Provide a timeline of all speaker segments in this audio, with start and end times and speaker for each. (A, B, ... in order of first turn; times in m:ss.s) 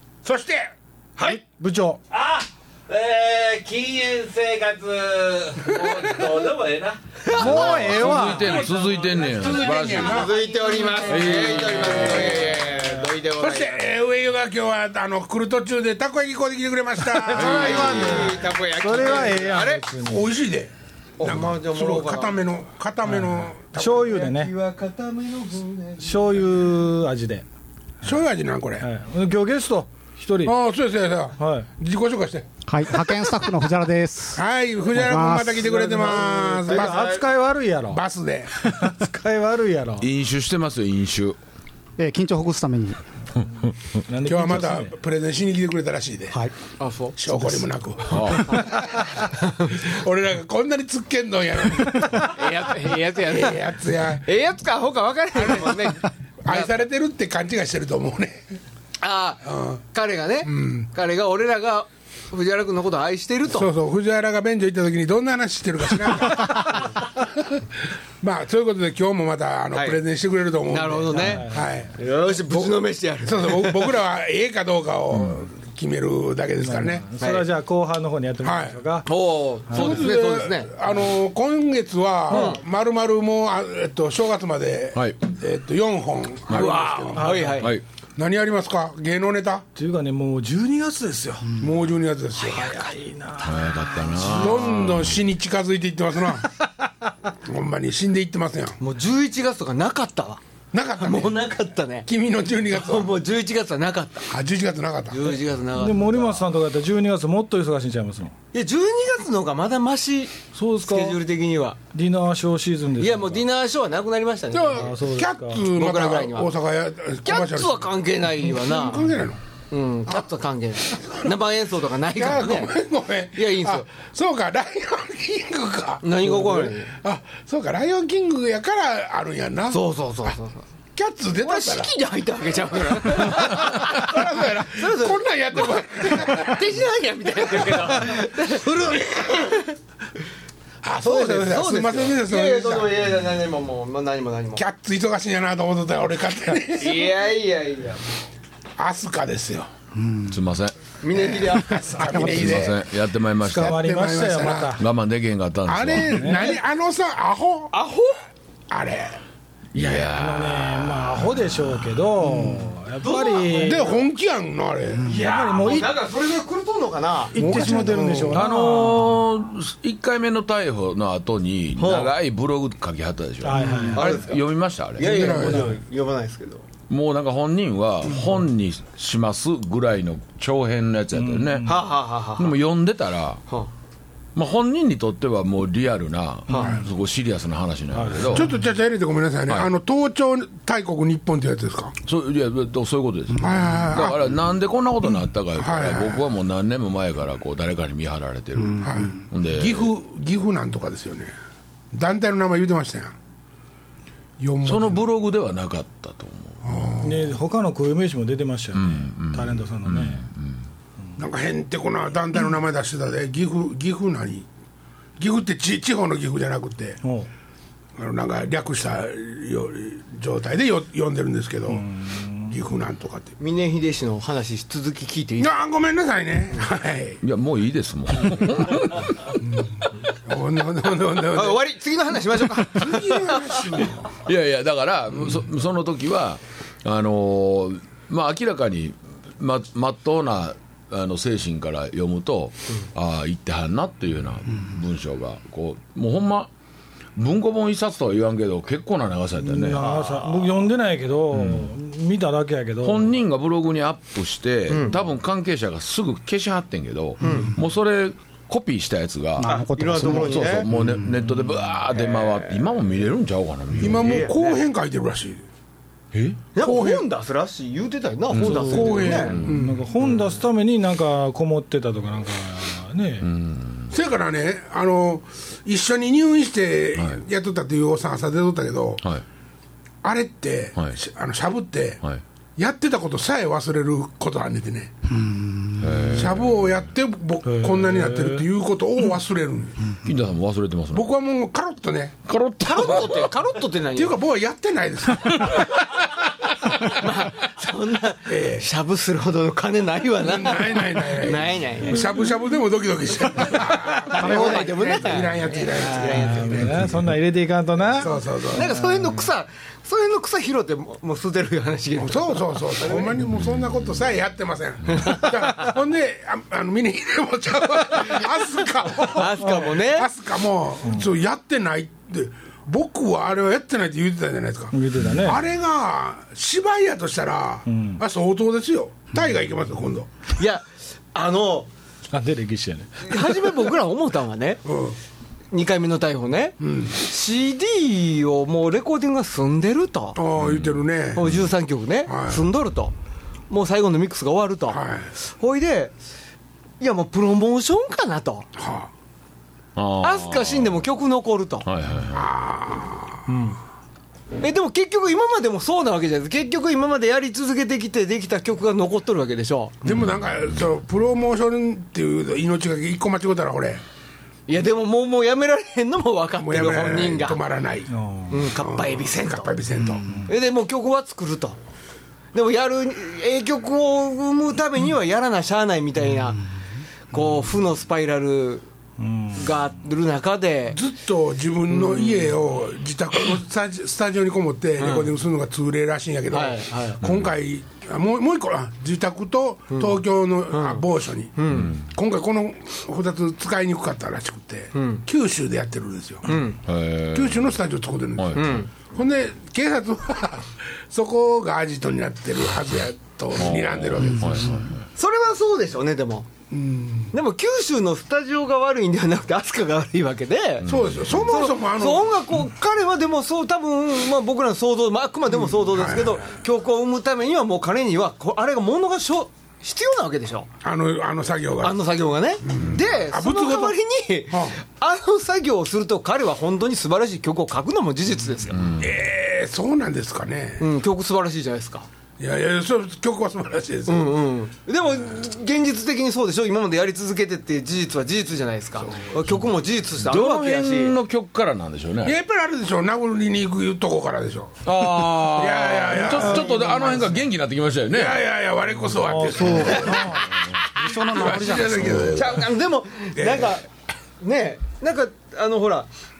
0:00.2-0:00.7 A
0:01.2-0:02.0 B
0:02.1-0:13.0 C
0:07.2-0:08.0 D
0:07.3-0:08.5 B
0:07.4-0:10.2 E
0:09.1-0:11.0 A
0:09.9-0:13.8 D
0:11.1-0:12.4 E
0:11.6-0:12.5 A
0:13.4-0:18.4 A
0:17.1-0:20.3 B
0:17.3-0:19.9 D
0:17.4-0:17.7 E
0:20.0-0:24.2 A
0:21.2-0:22.4 D
0:23.1-0:24.5 B
0:23.8-0:26.4 D
0:26.0-0:27.4 B
0:28.0-0:28.9 A
0:28.8-0:30.5 B
0:30.4-0:32.5 A
0:31.4-0:31.7 B
0:32.6-0:34.4 F
0:34.3-0:37.2 A
0:34.9-0:35.7 F
0:35.6-0:37.2 D
0:36.1-0:38.0 B
0:37.9-0:38.6 A
0:38.6-0:40.0 B
0:40.0-0:41.4 E
0:42.0-0:43.0 F
0:44.1-0:44.9 B
0:44.2-0:46.4 A
0:46.8-0:47.2 D
0:47.2-0:54.3 A
0:48.1-0:48.6 E
0:52.2-0:53.7 D
0:54.2-0:56.7 D
0:55.4-0:55.9 A
0:56.4-0:58.4 A
0:59.0-1:03.7 D
0:59.4-0:59.8 A
1:00.4-1:00.9 A
1:03.5-1:12.0 A
1:09.7-1:10.0 D
1:10.7-1:13.9 D
1:11.1-1:11.7 B
1:12.5-1:17.2 A
1:16.6-1:19.1 B
1:17.2-1:17.5 D
1:18.4-1:18.8 A
1:19.0-1:20.7 D
1:19.7-1:20.1 B
1:19.7-1:27.6 A
1:22.3-1:22.6 D
1:26.5-1:26.9 E
1:26.5-1:27.7 D
1:27.2-1:27.6 B
1:28.2-1:29.6 A
1:29.8-1:31.5 B
1:31.6-1:32.9 A
1:32.4-1:34.5 B
1:33.4-1:35.2 E
1:34.2-1:34.5 D
1:34.3-1:36.5 A
1:37.4-1:38.8 A
1:38.8-1:40.4 D
1:40.7-1:41.4 A
1:41.0-1:42.1 D
1:42.0-1:43.1 A
1:42.7-1:44.3 D
1:44.3-1:45.4 A
1:45.1-1:46.4 D
1:45.7-1:48.3 B
1:48.5-1:51.8 D
1:50.5-1:51.2 B
1:51.9-1:53.4 B
1:53.0-1:56.5 D
1:54.5-1:59.4 A
1:54.8-1:55.6 B
1:57.2-1:59.1 D
1:59.7-2:02.7 D
2:00.9-2:01.3 A
2:02.1-2:10.3 A
2:03.3-2:03.9 D
2:06.0-2:06.9 D
2:09.7-2:10.6 D
2:10.9-2:11.9 A
2:11.4-2:19.7 D
2:13.1-2:16.8 A
2:17.5-2:17.8 A
2:20.8-2:23.0 A
2:21.0-2:24.6 D
2:24.5-2:27.1 A
2:26.7-2:28.0 D
2:28.8-2:29.7 A
2:30.3-2:30.8 E
2:31.0-2:32.1 D
2:31.1-2:32.9 A
2:32.1-2:33.8 E
2:33.4-2:34.8 B
2:33.5-2:34.8 A
2:34.8-2:36.3 E
2:35.7-2:37.7 A
2:36.0-2:36.6 B
2:37.7-2:38.2 D
2:38.7-2:39.2 A
2:39.7-2:41.7 E
2:39.8-2:43.9 B
2:42.2-2:42.7 A
2:43.0-2:44.0 D
2:43.5-2:45.2 A
2:45.0-2:45.9 B
2:45.0-2:47.7 D
2:47.3-2:48.5 A
2:47.3-2:49.1 B
2:48.3-2:55.6 E
2:51.8-2:52.1 D
2:53.4-2:54.2 B
2:53.6-2:54.4 D
2:54.9-2:56.6 D
2:55.0-2:55.8 A
2:55.2-2:55.7 B
2:56.9-3:01.7 E
3:01.1-3:01.8 B
3:01.6-3:02.6 D
3:02.4-3:03.4 E
3:04.3-3:08.5 E
3:06.5-3:06.8 B
3:06.5-3:06.8 D
3:07.9-3:08.5 B
3:08.2-3:11.9 A
3:12.0-3:19.9 E
3:13.4-3:14.3 A
3:15.6-3:16.2 A
3:18.8-3:21.3 A
3:21.9-3:23.1 A
3:24.4-3:25.0 A
3:24.6-3:26.9 E
3:26.6-3:27.4 A
3:27.0-3:30.2 B
3:28.7-3:30.6 E
3:31.2-3:34.5 A
3:35.2-3:37.0 A
3:37.0-3:37.3 B
3:38.0-3:41.9 A
3:41.7-3:42.5 B
3:42.5-3:43.3 A
3:43.4-3:45.6 D
3:45.4-3:47.2 A
3:47.2-3:49.3 E
3:49.4-3:51.6 A
3:51.3-3:53.8 D
3:52.7-3:54.2 A
3:54.2-4:06.5 E
4:07.2-4:09.8 E
4:09.4-4:13.1 B
4:09.8-4:10.6 D
4:11.3-4:11.7 E
4:12.8-4:24.3 E
4:14.7-4:15.0 D
4:17.2-4:17.5 D
4:19.4-4:20.8 F
4:19.4-4:20.7 D
4:21.9-4:22.7 D
4:23.8-4:25.4 A
4:23.8-4:24.6 D
4:26.1-4:26.4 E
4:26.5-4:29.4 D
4:26.6-4:27.1 A
4:28.3-4:29.6 E
4:28.3-4:33.3 B
4:28.5-4:29.9 A
4:33.2-4:33.9 E
4:33.9-4:39.0 A
4:40.0-4:42.0 A
4:42.6-4:44.9 A
4:45.8-4:46.7 E
4:46.1-4:49.8 A
4:47.4-4:48.4 B
4:50.0-4:51.1 E
4:50.9-4:52.2 A
4:52.2-4:53.3 E
4:52.6-4:54.2 D
4:53.9-4:55.7 A
4:55.8-4:56.0 D
4:56.6-5:02.1 D
4:58.2-4:58.7 A
5:00.2-5:07.0 A
5:04.0-5:06.9 D
5:04.1-5:04.7 B
5:06.0-5:09.2 B
5:08.0-5:08.8 A
5:08.5-5:13.2 D
5:12.0-5:30.1 A
5:19.1-5:20.1 D
5:24.7-5:25.4 B
5:27.7-5:28.0 B
5:30.4-5:31.7 D
5:32.1-5:33.3 B
5:33.0-5:34.6 D
5:34.6-5:35.0 A
5:35.5-5:40.2 D
5:36.6-5:37.0 A
5:40.1-5:41.3 A
5:40.4-5:41.4 E
5:41.1-5:42.9 D
5:42.0-5:42.4 A
5:43.5-5:46.0 D
5:44.7-5:45.1 A
5:46.8-5:48.5 D
5:48.6-5:48.9 A
5:49.8-5:50.8 E
5:50.0-5:51.7 D
5:51.6-5:52.3 E
5:52.1-5:53.3 A
5:53.3-5:53.6 D
5:54.4-5:59.8 D
5:59.8-6:03.8 A
6:04.5-6:07.4 D
6:06.4-6:10.1 A
6:07.9-6:08.4 B
6:08.3-6:09.6 D
6:10.1-6:11.6 D
6:12.3-6:16.4 D
6:17.1-6:18.6 D
6:19.0-6:19.6 B
6:19.3-6:20.8 D
6:20.7-6:36.4 A
6:21.7-6:22.3 D
6:24.8-6:25.1 D
6:26.3-6:27.0 D
6:29.7-6:30.8 D
6:31.4-6:31.7 D
6:34.7-6:35.0 D
6:36.3-6:36.6 D
6:36.6-6:37.4 E
6:37.1-6:44.6 A
6:38.3-6:38.7 D
6:43.4-6:44.8 E
6:45.0-6:46.3 D
6:46.5-6:47.1 A
6:47.1-6:50.7 D
6:50.6-6:50.9 E
6:50.6-6:52.1 A
6:51.2-7:00.5 D
6:55.4-6:56.3 A
7:00.6-7:01.8 A
7:01.6-7:08.6 D
7:02.4-7:03.8 A
7:04.3-7:04.6 A
7:08.5-7:08.9 E
7:08.8-7:10.7 A
7:10.6-7:11.9 D
7:12.2-7:14.1 A
7:13.9-7:21.0 D
7:18.8-7:19.4 A
7:20.0-7:22.2 E
7:22.0-7:27.2 A
7:24.6-7:28.2 E
7:26.2-7:27.0 B
7:27.9-7:32.4 A
7:29.0-7:32.1 B
7:31.7-7:32.1 E
7:32.1-7:33.6 D
7:33.2-7:33.5 A
7:34.2-7:35.9 D